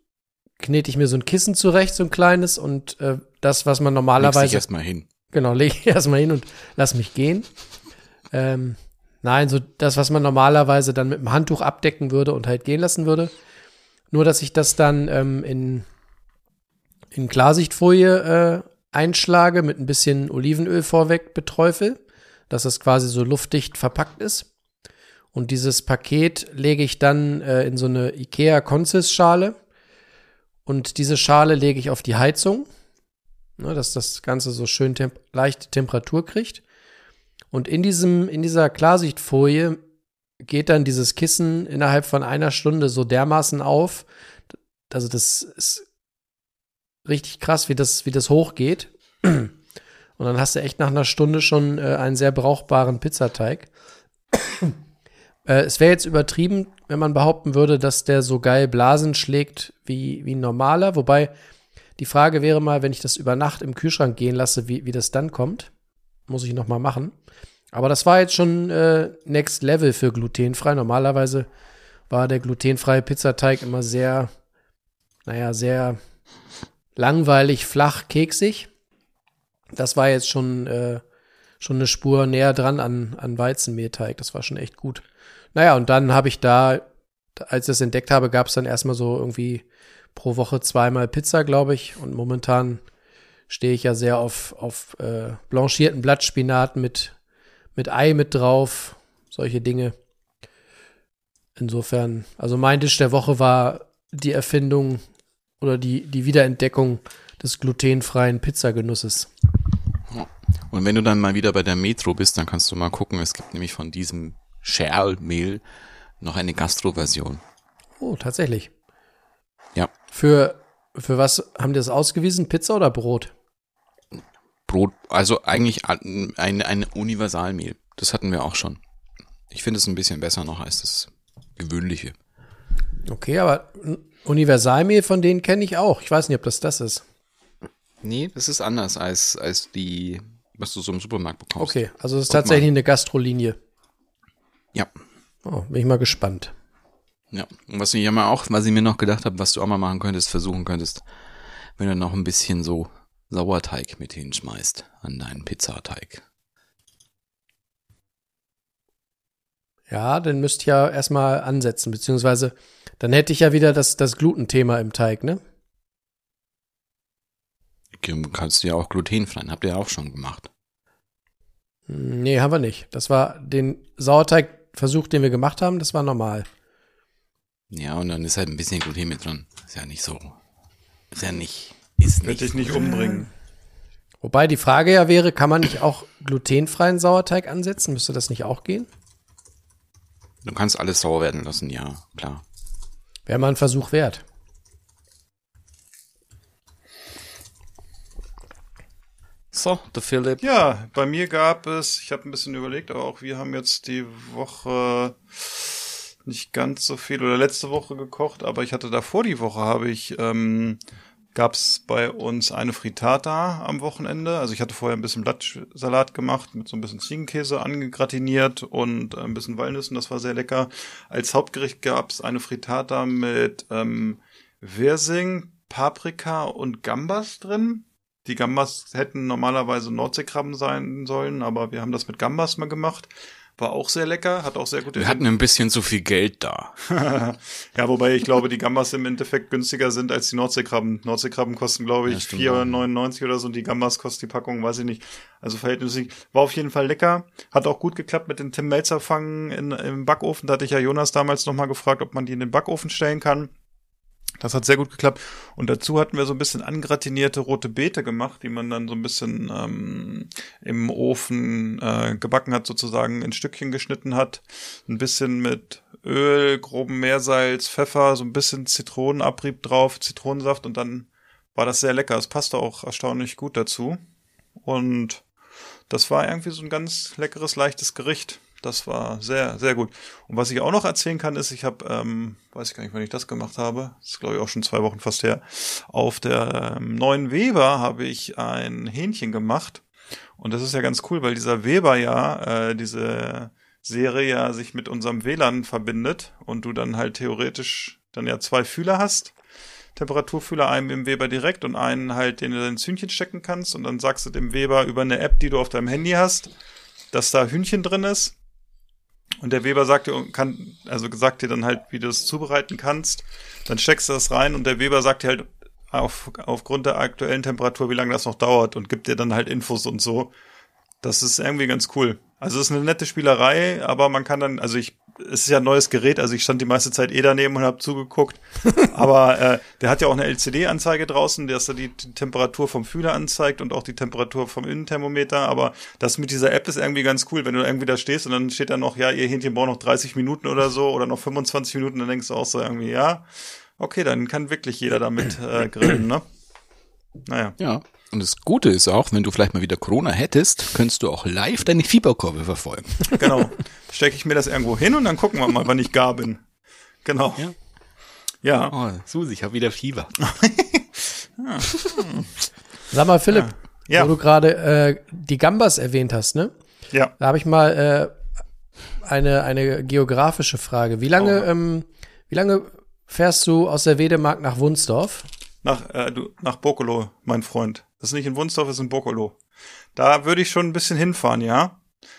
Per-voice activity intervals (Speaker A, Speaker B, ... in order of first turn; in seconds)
Speaker A: 0.6-4.7, 5.3-7.5, 8.3-13.3, 14.1-15.9, 17.1-24.5, 25.3-29.6, 30.7-32.7, 33.6-36.6, 37.5-39.8, 40.4-44.1, 44.9-45.8, 47.0-49.5, 50.2-53.7, 55.5-61.3, 62.0-65.7, 66.3-67.1, 67.7-71.5, 72.1-74.3, 75.3-76.0, 77.0-78.7, 79.7-81.0, 81.6-85.0, 85.5-86.8, 87.4-89.6, 90.2-92.8, 93.5-97.2, 97.8-100.0, 101.6-105.0, 105.6-109.3, 118.0-118.7, 120.1-123.3, 133.1-137.0, 141.6-143.6, 145.5-146.5, 159.9-165.4, 171.9-176.5, 184.2-188.9, 193.3-194.2, 362.9-366.5, 367.2-368.1, 369.0-375.3
Speaker B: 4.2-5.1, 110.1-115.6, 116.2-117.4, 124.2-128.8, 129.5-132.2, 138.0-141.8, 142.3-142.7, 147.3-151.0, 151.8-156.2, 168.0-170.5, 177.7-180.4, 181.1-183.0, 190.4-192.4, 199.5-200.4, 234.9-236.8, 242.1-242.9, 347.6-353.1, 358.7-360.1
Speaker C: 182.2-183.3, 200.4-210.8, 211.3-235.2, 236.9-253.5, 254.4-274.0, 274.6-275.2, 275.9-289.8, 290.4-299.3, 300.0-306.5, 307.1-308.4, 309.4-320.3, 321.0-343.3, 343.8-346.2, 347.3-347.6, 353.1-356.4, 357.1-357.4, 358.4-358.7, 360.3-360.8, 361.4-362.3, 363.3-364.1, 371.2-371.5, 375.6-379.4, 380.0-381.8